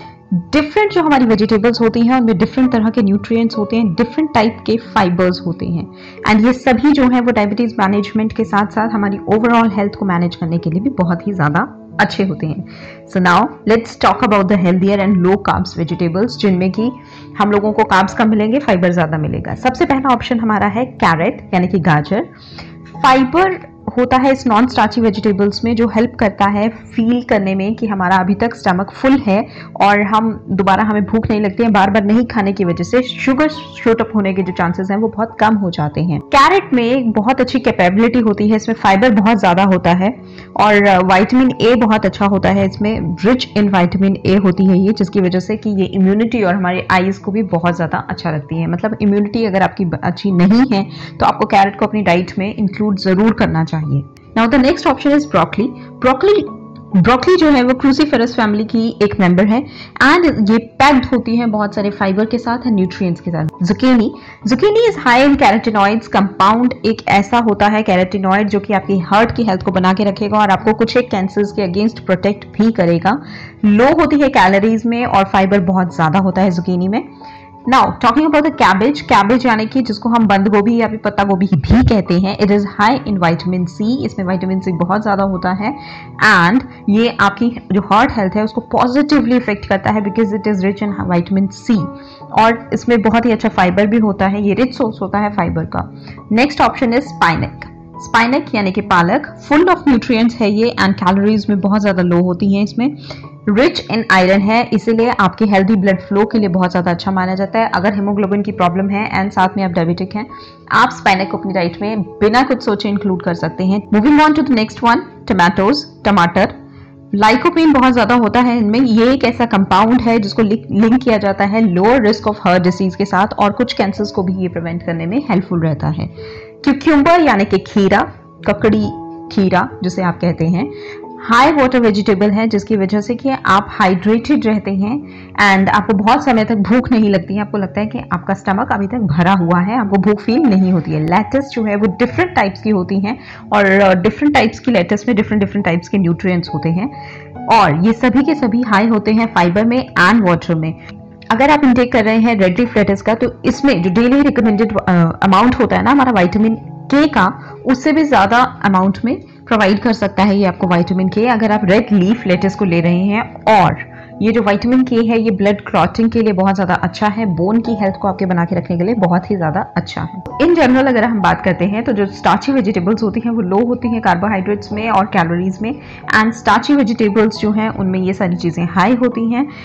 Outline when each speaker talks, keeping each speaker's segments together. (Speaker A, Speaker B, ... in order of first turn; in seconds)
Speaker A: 0.3-22.3, 22.9-77.0, 77.7-103.0, 103.5-116.5, 117.1-126.1, 126.6-146.9, 147.5-150.8, 151.3-179.5